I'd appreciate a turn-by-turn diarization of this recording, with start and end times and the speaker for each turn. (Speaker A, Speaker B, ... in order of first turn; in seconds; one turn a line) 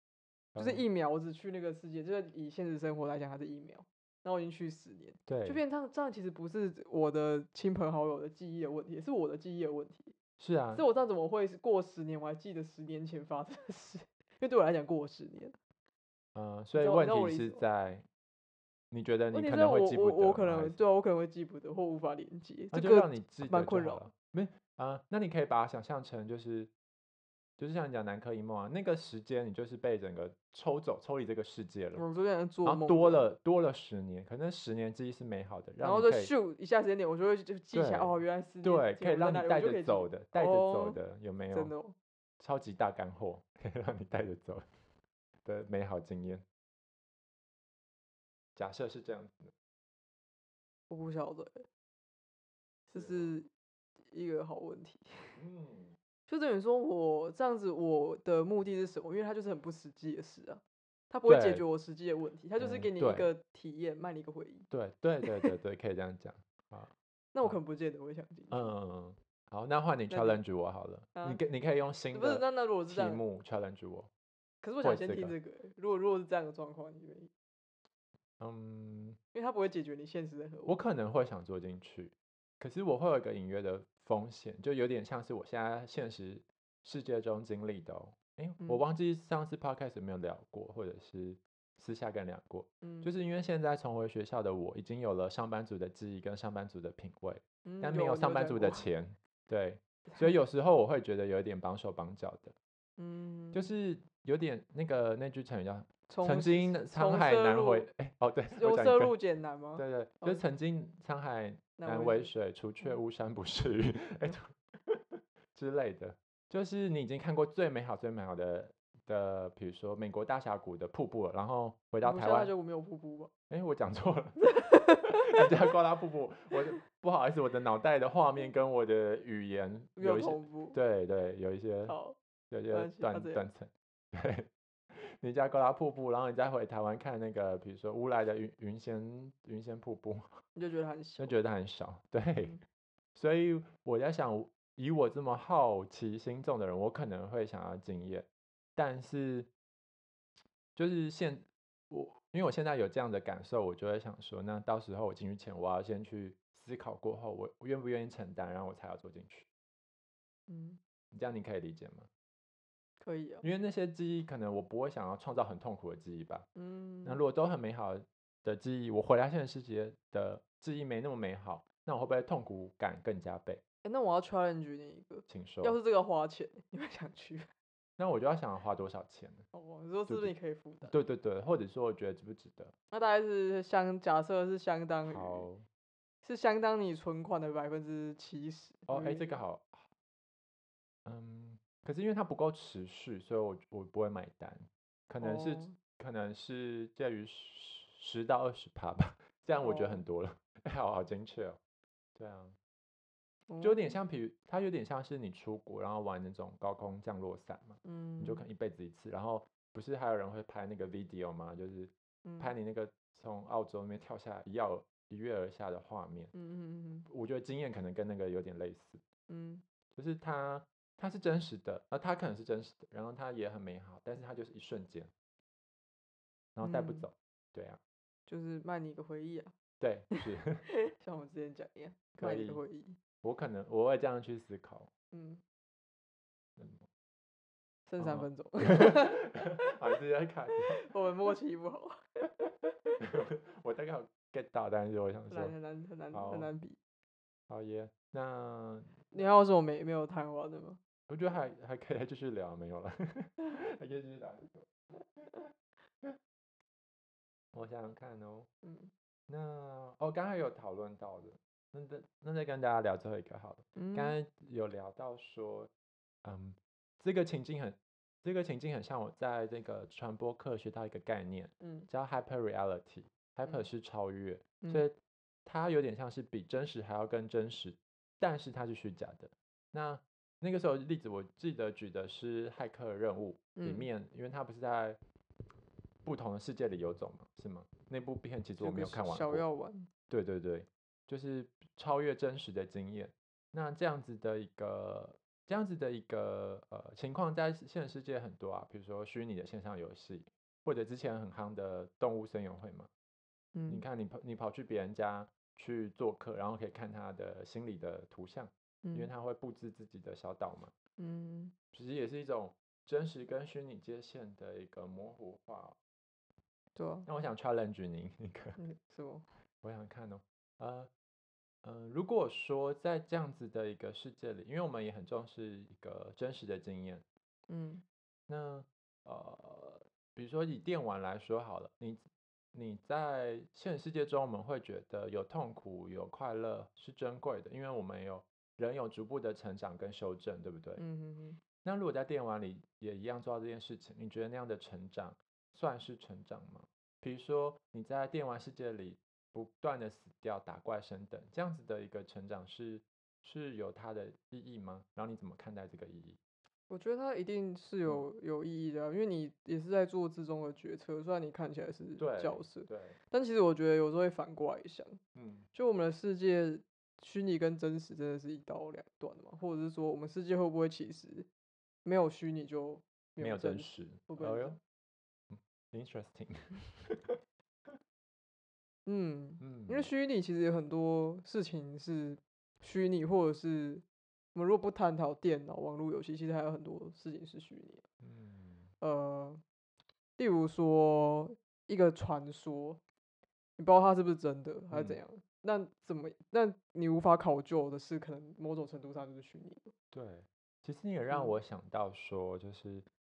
Speaker A: 0.5-0.8
Speaker B: 0.6-10.1
Speaker A: 5.3-5.6
Speaker A: 10.4-10.8
Speaker B: 10.7-15.6
Speaker A: 16.3-18.1
Speaker B: 16.7-17.6
Speaker A: 18.9-20.8
Speaker B: 19.3-24.0
Speaker A: 22.7-26.7
Speaker A: 27.6-32.0
Speaker B: 31.9-33.2
Speaker A: 32.6-36.3
Speaker B: 35.8-41.0
Speaker A: 37.7-41.7
Speaker B: 41.5-42.0
Speaker A: 42.4-44.6
Speaker A: 45.4-46.4
Speaker A: 48.5-49.5
Speaker B: 50.9-51.6
Speaker B: 52.9-53.5
Speaker A: 52.9-53.3
Speaker B: 54.1-55.3
Speaker A: 55.4-56.0
Speaker B: 56.3-64.7
Speaker A: 61.3-61.6
Speaker A: 62.6-63.3
Speaker A: 64.7-67.6
Speaker B: 65.2-65.5
Speaker B: 67.3-68.7
Speaker A: 68.5-74.1
Speaker B: 70.1-70.4
Speaker B: 71.1-71.4
Speaker B: 72.1-73.2
Speaker B: 74.6-77.3
Speaker A: 74.8-75.3
Speaker A: 78.4-79.2
Speaker B: 79.3-80.8
Speaker A: 80.7-102.5
Speaker B: 92.8-93.1
Speaker B: 97.6-98.9
Speaker B: 103.0-103.7
Speaker A: 103.5-109.1
Speaker B: 106.1-107.9
Speaker B: 108.5-110.4
Speaker A: 109.8-122.5
Speaker B: 111.8-112.3
Speaker B: 122.0-123.3
Speaker A: 123.5-131.9
Speaker B: 124.4-125.5
Speaker B: 130.0-130.8
Speaker B: 131.9-132.2
Speaker A: 132.5-140.4
Speaker B: 132.7-133.4
Speaker B: 140.6-141.3
Speaker A: 141.2-142.6
Speaker A: 143.1-149.5
Speaker A: 150.8-159.5
Speaker B: 160.5-160.8
Speaker A: 161.1-162.1
Speaker B: 163.0-163.5
Speaker A: 163.4-166.5
Speaker B: 166.6-167.2
Speaker A: 167.0-173.6
Speaker B: 173.8-177.5
Speaker A: 175.3-175.8
Speaker A: 178.0-179.4
Speaker B: 179.5-180.9
Speaker A: 180.1-182.7
Speaker B: 182.9-185.5
Speaker A: 185.0-185.6
Speaker B: 186.2-189.4
Speaker A: 188.9-189.8
Speaker A: 191.0-201.6
Speaker B: 195.2-195.8
Speaker B: 199.6-200.0
Speaker A: 202.2-202.6
Speaker B: 203.5-203.9
Speaker A: 203.6-216.3
Speaker B: 207.8-208.4
Speaker B: 212.2-212.5
Speaker B: 216.3-217.1
Speaker A: 217.1-219.0
Speaker B: 219.3-219.6
Speaker A: 219.9-225.1
Speaker A: 226.5-227.8
Speaker B: 226.6-227.1
Speaker B: 228.3-229.5
Speaker A: 229.8-230.7
Speaker B: 230.2-233.0
Speaker A: 232.2-232.6
Speaker A: 233.2-234.9
Speaker B: 235.1-235.4
Speaker A: 236.6-236.9
Speaker B: 237.9-239.7
Speaker A: 238.0-240.8
Speaker B: 240.5-243.0
Speaker A: 243.0-245.5
Speaker B: 245.3-246.8
Speaker A: 246.1-246.5
Speaker A: 247.5-249.3
Speaker B: 249.1-250.8
Speaker A: 251.1-255.4
Speaker A: 257.5-258.5
Speaker B: 258.6-258.9
Speaker A: 259.3-265.7
Speaker B: 263.8-264.1
Speaker A: 266.2-274.9
Speaker B: 271.6-271.9
Speaker A: 275.4-285.0
Speaker B: 283.6-283.9
Speaker A: 286.0-289.4
Speaker B: 288.6-289.9
Speaker A: 290.1-302.9
Speaker B: 303.5-303.8
Speaker A: 303.7-310.7
Speaker B: 308.8-309.1
Speaker B: 311.0-311.5
Speaker A: 311.7-315.8
Speaker B: 316.8-317.1
Speaker A: 317.1-318.6
Speaker B: 318.6-319.2
Speaker A: 319.6-320.9
Speaker A: 321.6-327.0
Speaker B: 327.5-327.8
Speaker A: 328.3-340.8
Speaker B: 340.8-341.4
Speaker A: 341.6-356.2
Speaker B: 356.7-365.0
Speaker A: 362.0-363.0
Speaker A: 365.1-365.5
Speaker B: 365.5-371.3
Speaker B: 371.8-374.6
Speaker A: 373.2-374.6
Speaker A: 375.3-377.2
Speaker B: 378.9-387.8
Speaker A: 379.4-379.9
Speaker A: 388.0-388.7
Speaker B: 388.8-389.4
Speaker B: 390.2-392.8
Speaker B: 393.6-399.7
Speaker A: 394.7-395.0
Speaker A: 399.9-402.9
Speaker B: 401.1-401.4